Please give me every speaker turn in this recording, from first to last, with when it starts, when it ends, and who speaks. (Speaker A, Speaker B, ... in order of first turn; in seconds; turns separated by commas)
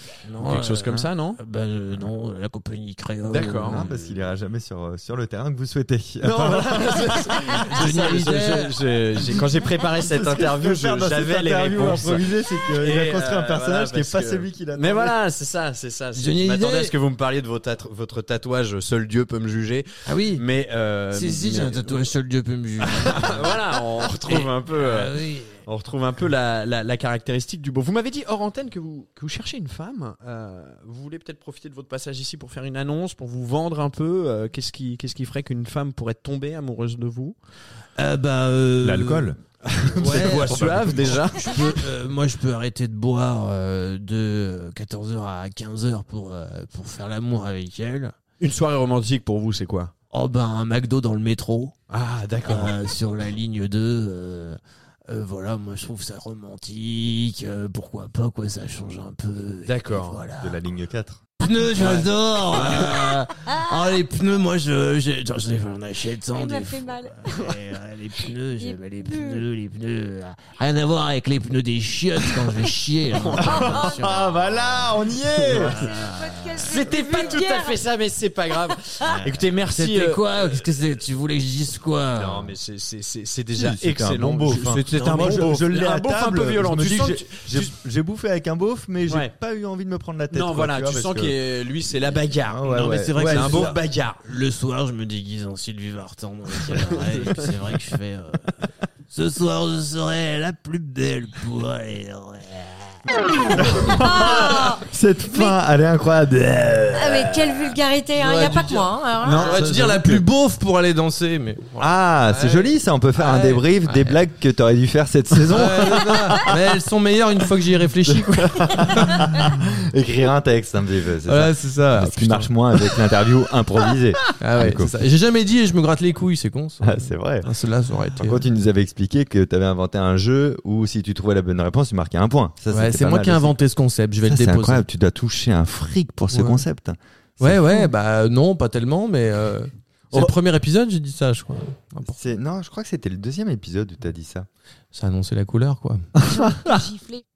Speaker A: 0.2-4.2, Speaker B: 0.4-1.4, Speaker B: 3.3-3.8, Speaker C: 3.6-7.9, Speaker B: 6.2-22.1, Speaker A: 7.5-8.9, Speaker C: 9.9-15.2, Speaker A: 16.1-16.9, Speaker A: 20.1-20.4, Speaker A: 21.1-23.6, Speaker B: 22.8-37.4, Speaker A: 24.2-25.6, Speaker A: 38.0-39.3, Speaker C: 38.8-41.2, Speaker B: 39.7-41.8, Speaker A: 39.9-48.2, Speaker B: 48.4-49.9, Speaker A: 50.1-51.8, Speaker B: 51.9-52.8, Speaker A: 52.5-60.6, Speaker B: 59.6-60.2, Speaker C: 60.4-61.2, Speaker A: 61.4-74.5, Speaker B: 61.8-63.1, Speaker D: 66.3-67.2, Speaker D: 68.6-69.4, Speaker B: 73.1-76.0, Speaker D: 73.4-74.4, Speaker C: 74.7-75.7, Speaker A: 75.5-77.1, Speaker D: 75.8-77.8, Speaker B: 76.6-80.7, Speaker A: 79.0-82.5, Speaker B: 82.2-87.7, Speaker C: 83.5-91.4, Speaker A: 84.9-85.5, Speaker B: 90.3-94.2, Speaker C: 92.4-93.8, Speaker A: 92.7-98.5, Speaker B: 96.7-97.5, Speaker A: 99.1-102.8, Speaker C: 103.5-107.5, Speaker D: 103.8-105.5, Speaker D: 106.9-109.6, Speaker E: 108.2-114.2, Speaker B: 109.2-110.2, Speaker C: 111.8-116.6, Speaker E: 115.5-119.5, Speaker C: 118.1-124.9, Speaker E: 121.3-122.5, Speaker E: 124.4-128.4, Speaker C: 126.8-127.5, Speaker C: 128.2-133.6, Speaker E: 132.7-134.8, Speaker C: 134.2-137.6, Speaker E: 136.3-136.6, Speaker E: 137.4-142.2, Speaker C: 142.1-144.5, Speaker E: 144.9-146.1, Speaker B: 146.2-146.7, Speaker D: 146.2-147.2